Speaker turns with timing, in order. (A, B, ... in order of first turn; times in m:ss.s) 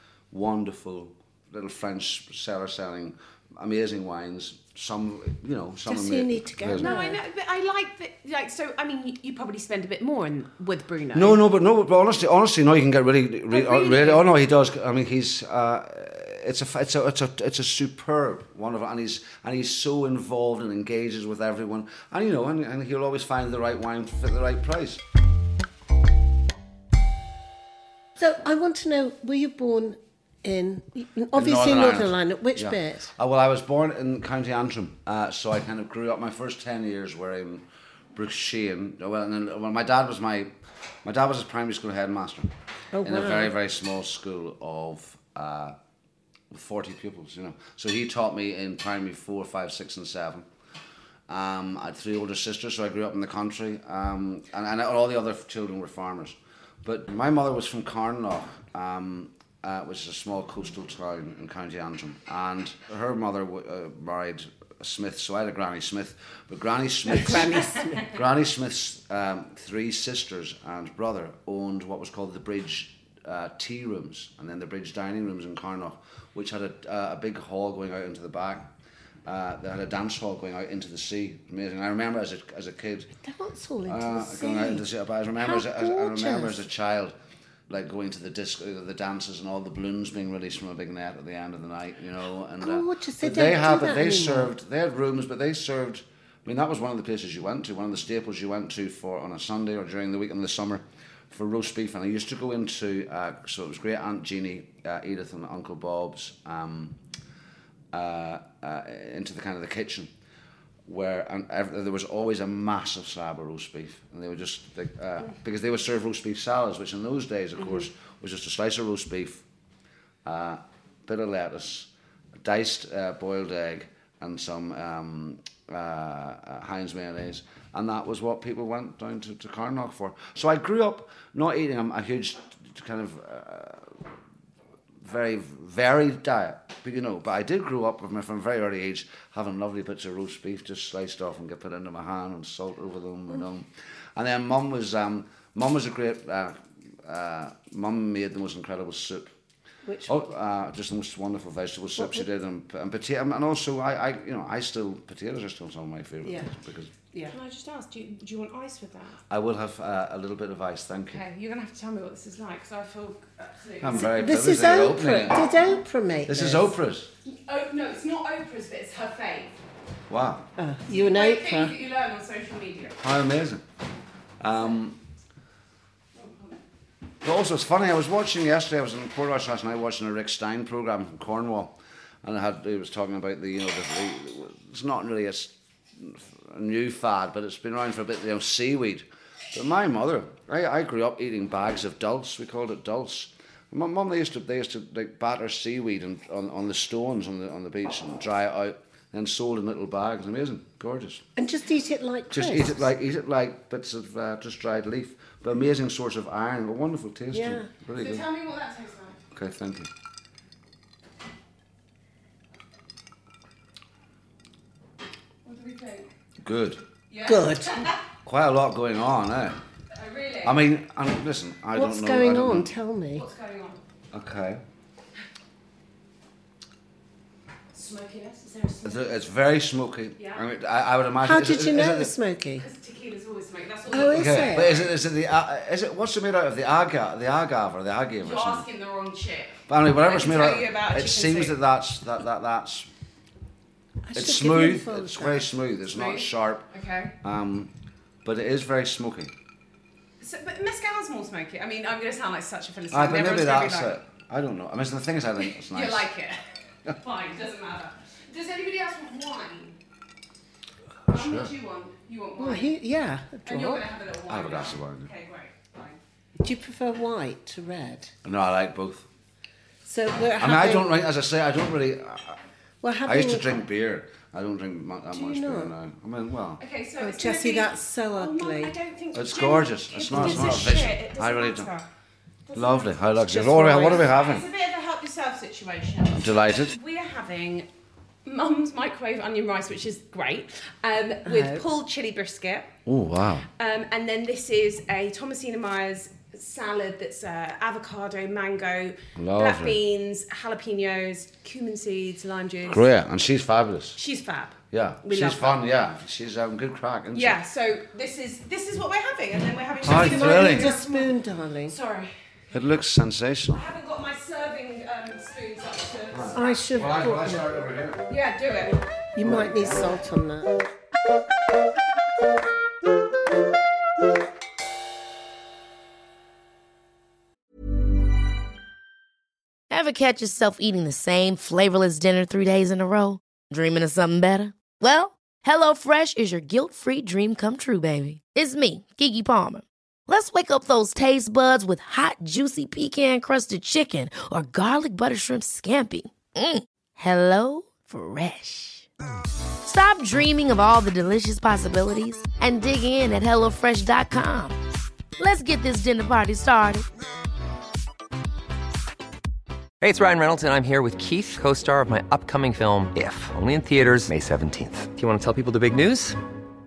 0:00.3-0:07.0 A
0:05.9-0:07.2 B
0:06.8-0:11.4 C
0:11.1-0:25.0 A
0:13.5-0:14.2 C
0:28.2-0:33.1 B
0:31.3-0:37.6 A
0:38.2-0:40.5 A
0:41.0-0:42.5 A
0:42.9-0:43.5 B
0:43.0-0:45.8 A
0:46.5-0:50.5 A
0:51.3-1:18.7 A
1:07.4-1:08.0 C
1:19.3-1:23.1 A
1:23.2-1:24.8 B
1:23.9-1:27.2 A
1:25.4-1:26.6 B
1:27.7-1:47.0 A
1:32.6-1:34.5 B
1:47.9-1:50.1 A
1:50.9-1:59.4 A
2:00.2-2:01.9 A
2:02.4-2:14.0 A
2:15.0-2:29.3 A
2:29.8-2:30.3 B
2:30.1-2:36.9 A
2:32.0-2:32.3 B
2:36.2-2:36.5 B
2:37.3-2:39.2 C
2:39.3-2:41.2 A
2:41.1-2:44.2 C
2:43.8-2:45.4 A
2:44.0-2:46.7 B
2:46.3-2:47.1 A
2:47.3-2:49.6 C
2:50.1-2:50.5 A
2:50.6-2:51.7 B
2:50.9-2:53.0 C
2:53.0-2:53.6 A
2:54.4-2:55.0 A
2:57.2-3:21.2 A
3:21.4-3:22.9 B
3:22.3-3:28.3 A
3:27.3-3:27.7 B
3:27.9-3:29.2 C
3:29.3-3:29.9 A
3:35.4-3:36.1 C
3:36.4-3:36.8 A
3:37.1-3:38.0 C
3:37.2-3:37.7 B
3:38.2-3:39.6 A
3:39.9-3:40.6 C
3:40.4-3:42.7 A
3:41.7-3:43.2 B
3:43.1-3:43.8 C
3:44.1-3:44.6 A
3:47.7-3:49.1 C
3:48.8-3:52.1 A
3:50.2-3:50.4 C
3:51.2-3:52.6 B
3:52.6-3:54.9 C
3:53.9-3:54.8 B
3:54.0-3:58.7 A
3:58.2-4:01.6 C
3:59.7-4:02.9 A
4:04.0-4:05.5 B
4:04.1-4:06.7 A
4:05.9-4:07.1 C
4:07.2-4:07.7 A
4:08.2-4:09.3 A
4:10.2-4:13.9 C
4:12.9-4:16.1 A
4:15.5-4:19.8 C
4:21.1-4:21.5 A
4:21.1-4:22.7 C
4:22.4-4:23.8 B
4:23.5-4:26.0 C
4:24.3-4:25.1 A
4:26.4-4:28.1 B
4:28.2-4:29.1 A
4:29.8-4:31.0 B
4:30.4-4:32.4 A
4:32.8-4:33.5 B
4:33.0-4:36.6 A
4:35.1-4:35.7 B
4:36.6-4:41.9 C
4:37.0-4:38.7 B
4:39.1-4:41.7 A
4:40.1-4:40.6 B
4:42.5-4:47.7 C
4:42.6-4:44.4 A
4:43.4-4:43.9 B
4:46.1-4:46.8 A
4:48.2-4:52.7 C
4:51.2-4:51.7 B
4:52.9-4:53.5 A
4:53.6-5:02.9 C
4:59.2-4:59.8 A
5:02.7-5:04.0 A
5:04.0-5:05.6 C
5:04.7-5:07.4 A
5:07.1-5:11.2 C
5:09.8-5:10.7 A
5:09.9-5:11.8 B
5:11.7-5:12.1 C
5:12.5-5:13.6 A
5:13.5-5:16.6 C
5:16.1-5:18.0 A
5:16.3-5:17.5 B
5:18.1-5:18.8 C
5:19.2-5:20.5 B
5:19.2-5:19.9 A
5:29.7-5:48.9 D
5:49.6-5:54.6 D
5:55.2-5:56.9 D
5:59.8-6:06.2 E